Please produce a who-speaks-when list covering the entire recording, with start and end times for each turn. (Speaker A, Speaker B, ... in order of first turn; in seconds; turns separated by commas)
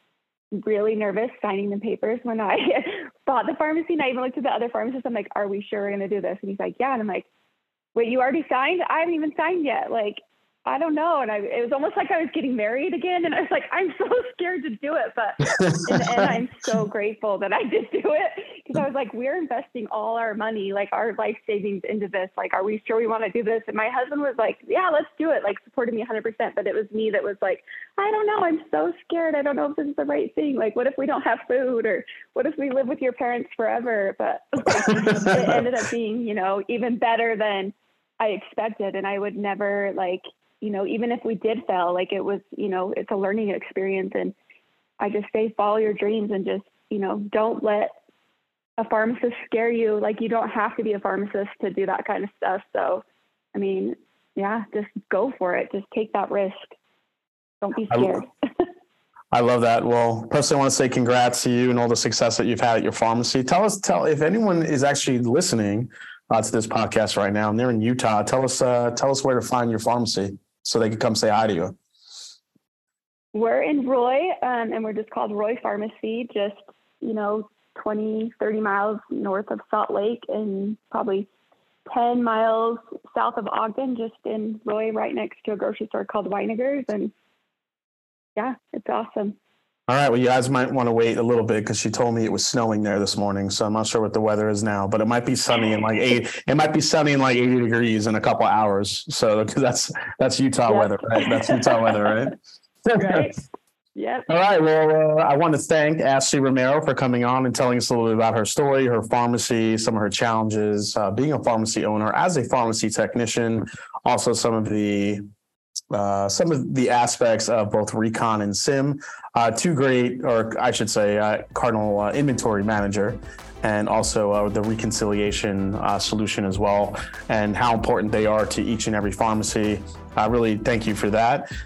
Speaker A: 0.6-7.3, Speaker A: 7.9-44.3, Speaker B: 15.6-16.3, Speaker B: 35.0-35.6, Speaker A: 45.0-47.9, Speaker A: 48.8-53.0, Speaker A: 53.5-56.7, Speaker A: 57.6-58.3, Speaker B: 57.9-58.2, Speaker B: 59.3-71.8, Speaker A: 73.3-81.3, Speaker A: 81.9-87.1, Speaker A: 88.3-89.3, Speaker B: 89.9-102.3, Speaker A: 100.7-102.1, Speaker B: 102.8-103.3, Speaker A: 102.9-103.4, Speaker A: 103.9-104.3, Speaker B: 104.3-115.2, Speaker B: 115.9-131.5